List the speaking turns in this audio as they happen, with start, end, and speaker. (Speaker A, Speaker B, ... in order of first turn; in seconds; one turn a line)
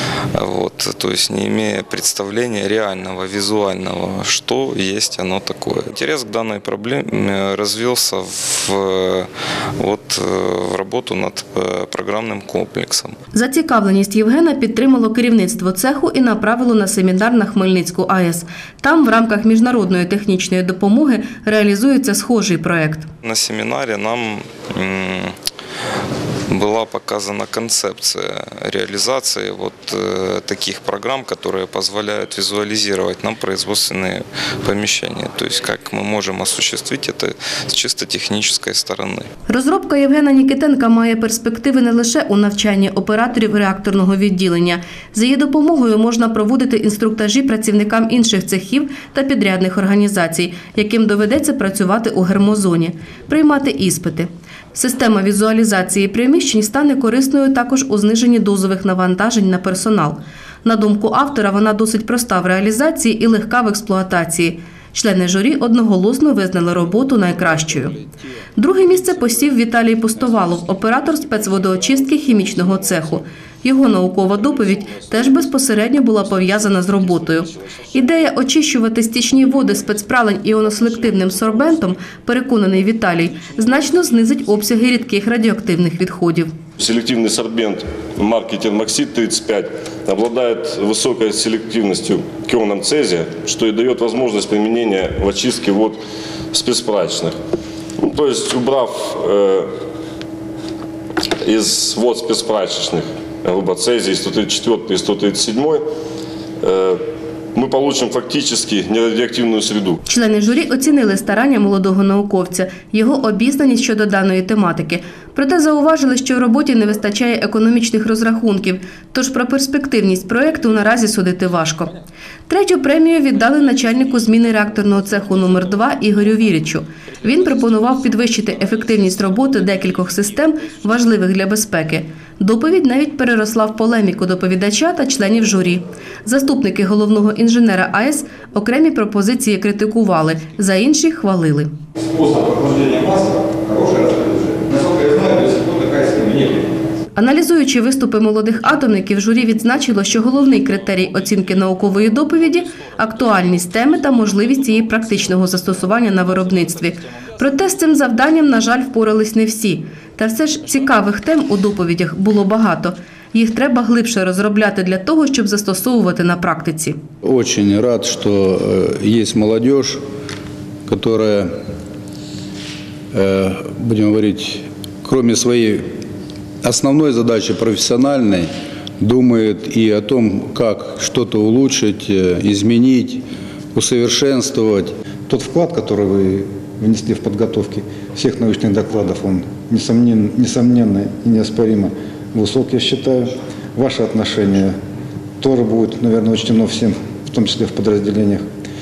Speaker A: 0.3-13.2
Speaker B: 13.3-23.1
Speaker A: 23.2-25.4
Speaker A: 26.5-39.3
Speaker B: 39.5-68.0
Speaker B: 68.6-86.6
Speaker C: 86.8-96.0
Speaker C: 96.5-97.4
Speaker C: 98.0-99.7
Speaker C: 101.4-105.8
Speaker C: 106.6-107.0
Speaker C: 107.5-110.0
Speaker B: 110.1-122.0
Speaker B: 122.5-141.8
Speaker D: 142.4-144.1
Speaker D: 144.7-146.5
Speaker B: 147.2-167.0
Speaker E: 167.2-170.1
Speaker E: 170.9-171.6
Speaker E: 173.1-176.0
Speaker E: 176.6-185.0
Speaker F: 185.2-194.8
Speaker F: 195.4-198.5